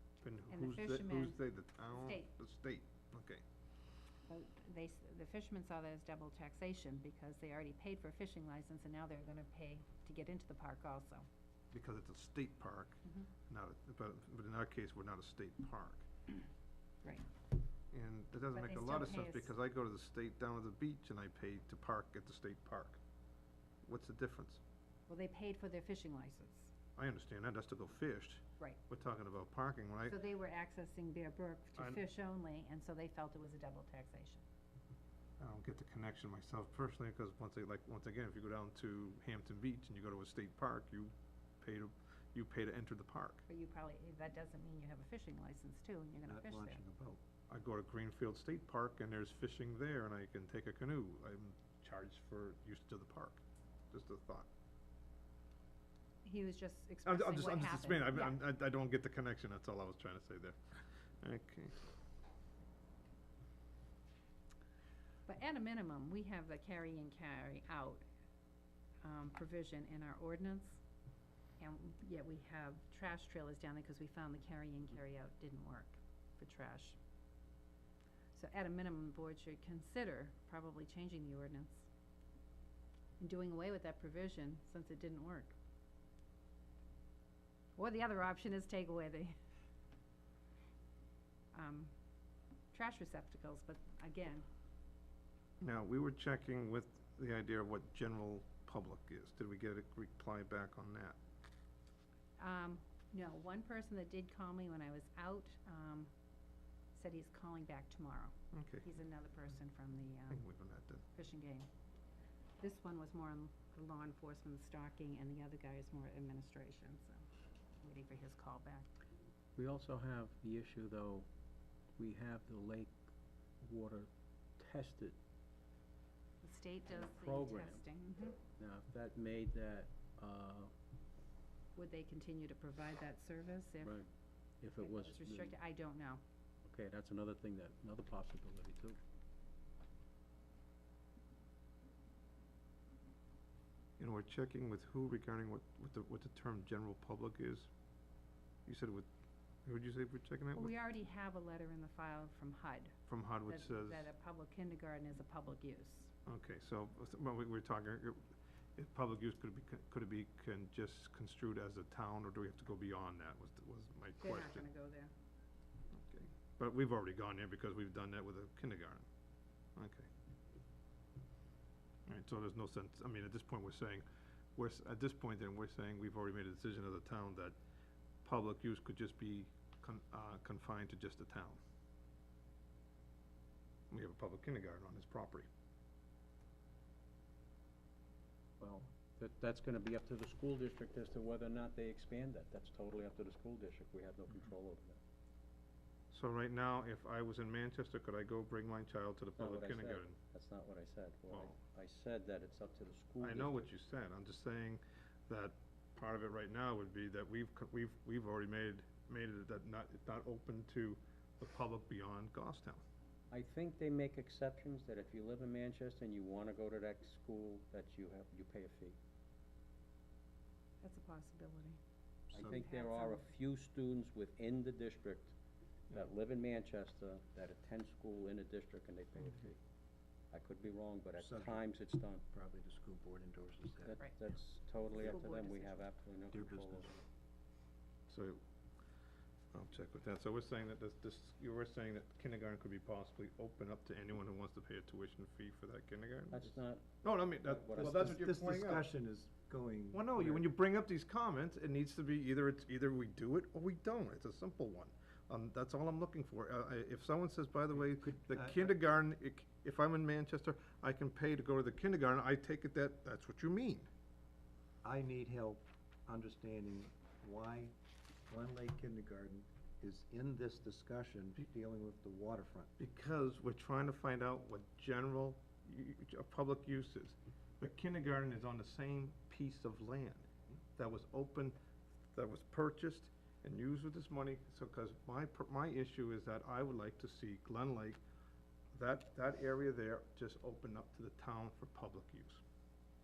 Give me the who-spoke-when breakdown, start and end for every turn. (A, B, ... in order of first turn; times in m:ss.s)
0:00.2-0:03.4 A
0:00.5-0:01.4 B
0:01.9-0:02.3 B
0:04.3-0:11.3 B
0:11.7-0:16.0 A
0:17.9-0:23.0 A
0:18.5-0:19.5 B
0:23.8-0:24.6 A
0:25.1-0:26.7 B
0:27.0-0:30.2 A
0:30.1-0:34.4 B
0:31.8-0:32.0 A
0:35.4-0:43.4 A
0:43.5-0:46.8 B
0:46.2-0:47.2 C
0:47.5-0:54.5 A
0:56.2-0:58.4 B
0:57.0-1:01.8 A
1:05.3-1:08.0 B
1:09.0-1:10.8 B
1:11.6-1:17.0 B
1:18.3-1:21.9 B
1:23.2-1:25.5 B
1:27.8-1:29.3 B
1:31.5-1:31.9 B
1:32.7-1:34.4 B
1:35.6-1:41.2 A
1:42.4-1:46.1 B
1:46.9-1:50.4 B
1:48.5-1:48.9 A
1:50.3-1:51.0 A
1:51.1-1:51.7 B
1:52.6-1:57.2 B
1:57.8-1:58.9 B
1:59.6-2:01.3 D
2:02.0-2:03.0 D
2:03.6-2:05.2 D
2:06.4-2:08.4 B
2:06.9-2:07.8 D
2:08.5-2:10.7 D
2:11.7-2:14.0 B
2:13.8-2:14.1 D
2:14.6-2:15.6 D
2:14.8-2:16.2 B
2:16.6-2:19.0 D
2:24.0-2:27.7 A
2:28.6-2:29.1 A
2:29.6-2:30.7 A
2:30.5-2:33.0 B
2:33.1-2:34.1 A
2:33.5-2:36.1 B
2:36.2-2:44.7 A
2:44.2-2:45.1 B
2:45.9-2:49.0 A
2:49.8-2:50.1 A
2:52.1-2:57.6 A
2:58.2-3:01.6 A
3:03.9-3:05.5 A
3:08.6-3:15.0 D
3:16.1-3:20.2 A
3:19.4-3:23.6 D
3:21.3-3:21.6 A
3:23.2-3:32.8 A
3:33.3-3:39.0 D
3:40.8-3:41.8 B
3:42.3-3:42.6 C
3:42.3-3:45.3 D
3:42.4-3:43.3 B
3:45.9-3:49.6 D
3:50.3-3:52.2 D
3:51.2-3:51.7 C
3:52.3-3:54.0 C
3:53.8-3:56.9 D
3:54.9-3:55.9 B
3:56.3-3:57.0 C
3:58.1-3:58.4 A
3:59.5-4:08.9 A
4:06.3-4:06.9 D
4:07.4-4:08.2 D
4:07.5-4:10.5 C
4:09.9-4:23.9 A
4:17.8-4:18.8 C
4:24.8-4:27.7 C
4:28.3-4:32.7 C
4:32.8-4:41.6 A
4:42.1-4:48.0 A
4:48.7-4:52.4 A